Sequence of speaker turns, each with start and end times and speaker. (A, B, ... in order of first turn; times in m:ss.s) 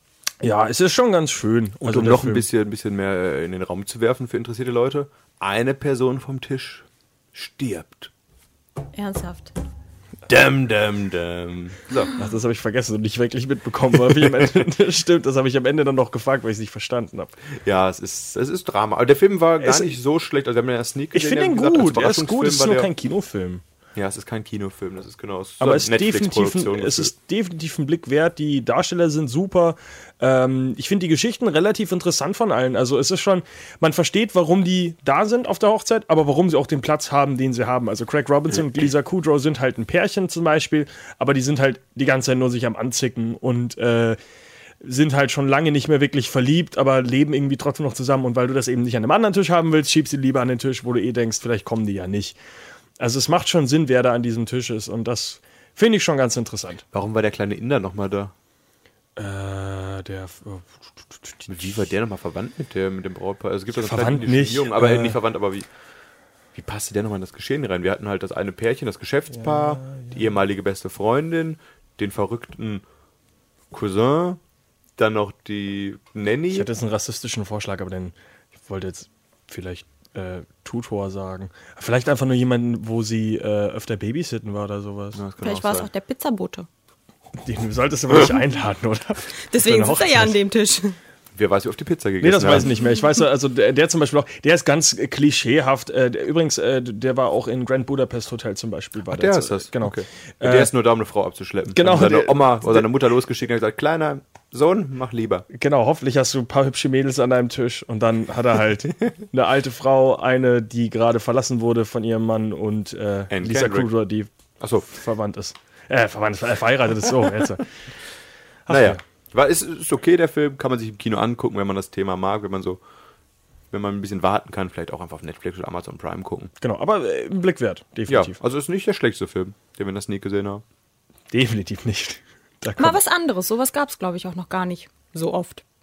0:00.4-0:02.5 A
0:01.8-0:08.1 B
0:08.9-0:09.5 C
0:10.3-0:12.1 B
0:12.2-0:17.3 A
0:17.6-0:22.9 B
0:19.6-0:19.9 A
0:21.1-0:23.6 A
0:23.9-0:27.1 B
0:25.6-0:44.2 A
0:44.8-0:52.4 A
0:53.0-0:56.8 A
0:56.9-0:58.3 B
0:59.2-1:01.5 A
1:01.5-1:05.7 B
1:03.7-1:05.2 A
1:06.5-1:12.8 B
1:09.4-1:10.2 A
1:13.7-1:14.4 B
1:15.0-1:16.7 B
1:16.5-1:25.2 A
1:25.1-1:25.9 B
1:25.4-1:26.7 C
1:27.4-1:30.4 A
1:29.5-1:31.0 C
1:31.3-1:32.7 B
1:32.2-1:40.7 A
1:39.1-1:45.4 B
1:41.7-1:42.9 A
1:45.5-1:54.3 A
1:53.3-1:53.9 B
1:54.6-1:54.9 B
1:54.8-1:57.7 A
1:58.6-1:59.0 A
1:58.7-2:02.8 B
2:03.7-2:06.5 B
2:06.6-2:08.4 A
2:08.1-2:10.6 B
2:11.3-2:13.0 A
2:12.8-2:15.6 C